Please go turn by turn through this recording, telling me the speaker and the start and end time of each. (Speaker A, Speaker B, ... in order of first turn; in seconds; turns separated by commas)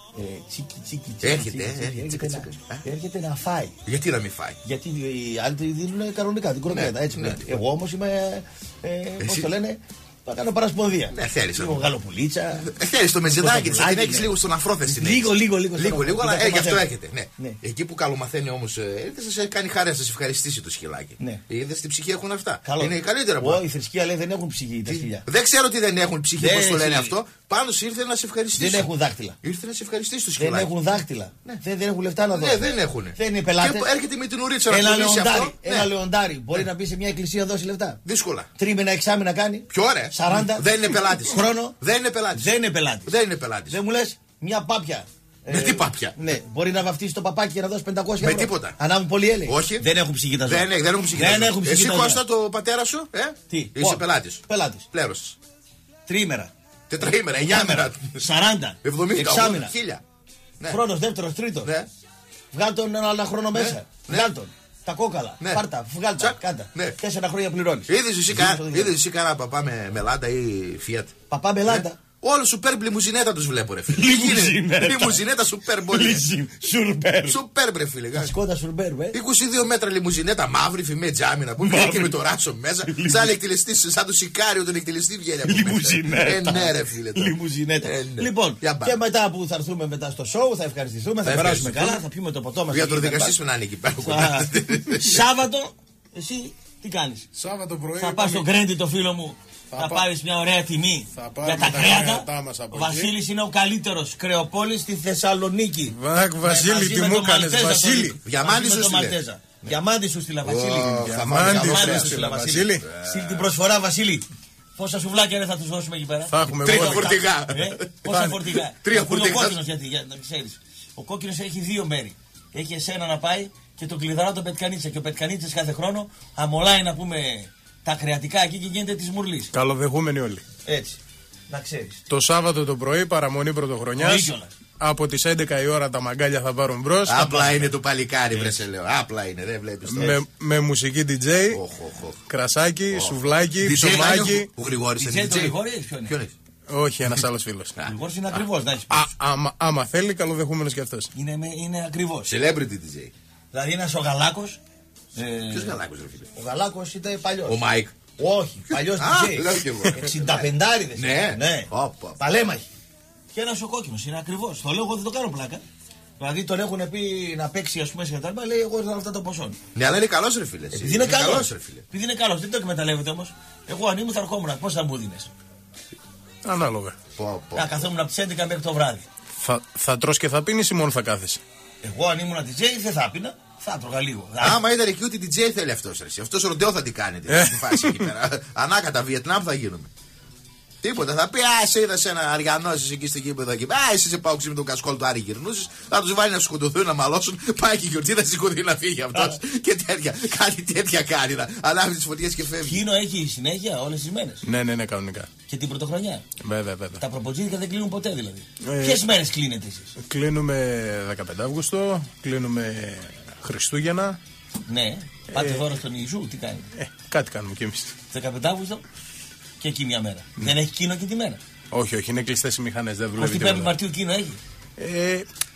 Speaker A: 0.2-3.8, Speaker B: 1.2-2.8, Speaker B: 3.9-4.6, Speaker A: 4.7-12.7, Speaker B: 6.7-7.5, Speaker B: 9.2-9.5, Speaker B: 11.1-11.9, Speaker B: 12.6-23.6, Speaker A: 13.3-14.3, Speaker A: 14.9-16.9, Speaker A: 22.6-25.2, Speaker B: 24.9-28.9, Speaker A: 26.4-27.1, Speaker A: 28.6-29.4, Speaker B: 29.4-30.7, Speaker A: 30.4-33.9, Speaker B: 32.3-35.9, Speaker A: 34.7-38.0, Speaker B: 38.0-38.5, Speaker A: 38.6-41.8, Speaker B: 39.7-42.5, Speaker A: 42.4-43.1, Speaker B: 43.1-43.8, Speaker A: 43.7-52.2, Speaker B: 45.5-46.2, Speaker B: 48.2-48.8, Speaker B: 49.5-49.9, Speaker B: 50.5-55.4, Speaker A: 53.5-54.9, Speaker A: 56.1-56.5, Speaker B: 56.9-58.2, Speaker A: 57.5-59.7, Speaker B: 58.8-60.0, Speaker A: 60.7-61.7, Speaker A: 62.5-69.0, Speaker B: 63.5-64.3, Speaker B: 66.2-67.0, Speaker B: 67.9-76.3, Speaker A: 71.3-72.0, Speaker A: 73.9-75.2, Speaker A: 75.9-77.4, Speaker B: 77.2-78.3, Speaker A: 78.2-79.2, Speaker B: 79.1-89.0, Speaker A: 81.6-82.2, Speaker A: 82.9-83.3, Speaker A: 85.5-93.4, Speaker B: 91.2-92.0, Speaker B: 92.7-95.3, Speaker A: 94.0-97.3, Speaker C: 97.3-98.5, Speaker A: 98.0-114.3, Speaker C: 99.7-100.1, Speaker C: 101.2-103.2, Speaker C: 105.9-108.2, Speaker B: 108.2-109.8, Speaker B: 110.4-113.5, Speaker C: 111.0-112.8, Speaker A: 114.8-129.5, Speaker C: 116.3-117.2, Speaker B: 116.6-119.6, Speaker C: 129.5-130.4, Speaker A: 130.7-131.0, Speaker A: 131.5-132.0, Speaker C: 132.1-137.7, Speaker A: 134.0-134.5, Speaker B: 137.1-140.2, Speaker C: 139.9-141.6, Speaker B: 141.5-142.2, Speaker C: 142.3-144.5, Speaker B: 142.9-146.3, Speaker A: 145.0-146.2, Speaker C: 146.7-147.8, Speaker A: 147.8-149.1, Speaker C: 148.9-151.1, Speaker A: 151.2-152.3, Speaker B: 152.3-153.1, Speaker A: 153.5-154.6, Speaker A: 155.2-155.8, Speaker B: 155.5-156.3, Speaker A: 156.3-157.6, Speaker B: 157.5-158.0, Speaker A: 158.2-162.7, Speaker B: 158.7-162.2, Speaker A: 163.3-165.6, Speaker A: 166.2-169.6, Speaker B: 169.8-171.8, Speaker A: 170.7-175.3, Speaker C: 176.4-177.0, Speaker B: 177.2-177.7, Speaker A: 177.6-179.1, Speaker C: 179.4-181.4, Speaker A: 181.8-184.6, Speaker B: 184.4-189.9, Speaker C: 187.3-188.1, Speaker B: 190.8-202.8, Speaker A: 202.6-204.4, Speaker C: 204.4-205.3, Speaker A: 205.5-206.2, Speaker C: 206.4-207.0, Speaker A: 207.0-209.9, Speaker C: 208.6-209.0, Speaker C: 210.0-214.2, Speaker A: 214.7-216.7, Speaker C: 215.3-215.7, Speaker C: 216.8-217.9, Speaker A: 218.1-218.8, Speaker A: 219.6-221.4, Speaker C: 221.7-223.7, Speaker A: 223.2-224.4, Speaker C: 224.8-225.3